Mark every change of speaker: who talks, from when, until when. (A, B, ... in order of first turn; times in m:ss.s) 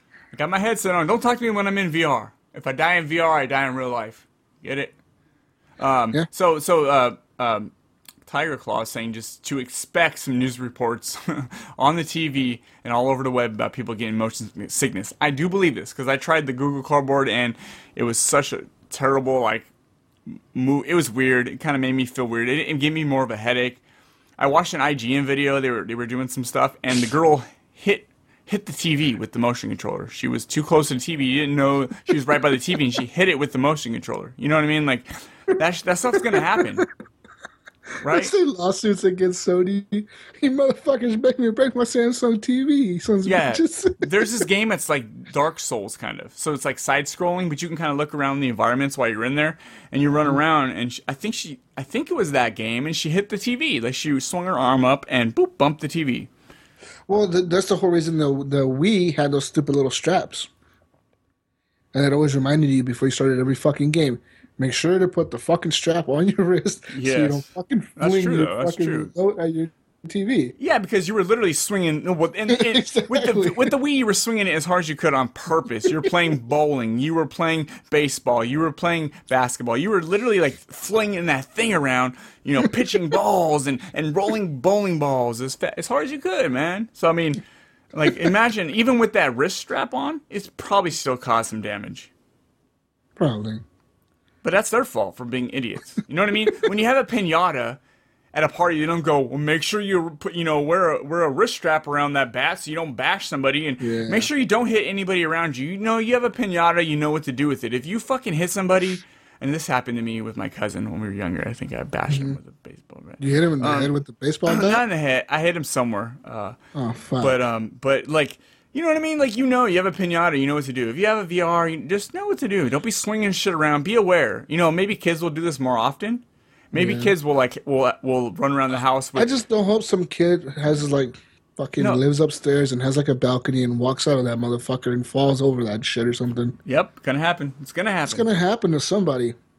0:00.3-0:04.9 A
0:05.8-0:07.7 A
0:08.2-0:19.7 A
0:20.5-0:23.8 A
0:24.4-0:36.8 A
0:36.2-0:36.8 B
0:38.0-0:38.3 A
0:38.0-0:44.4 B
0:43.2-0:56.3 A
0:57.1-1:00.5 B
1:01.9-1:10.5 B
1:06.9-1:09.1 A
1:10.6-1:27.4 A
1:12.5-1:13.7 B
1:27.9-1:32.1 A
1:33.2-1:33.6 B
1:34.4-1:37.8 A
1:38.3-1:53.9 A
1:43.8-1:44.3 B
1:52.1-1:52.4 B
1:53.2-1:54.8 B
1:54.5-1:56.6 A
1:56.7-1:57.4 B
1:57.2-2:09.3 A
2:06.7-2:07.1 B
2:09.2-2:16.6 B
2:16.6-2:18.3 A
2:18.0-2:19.4 B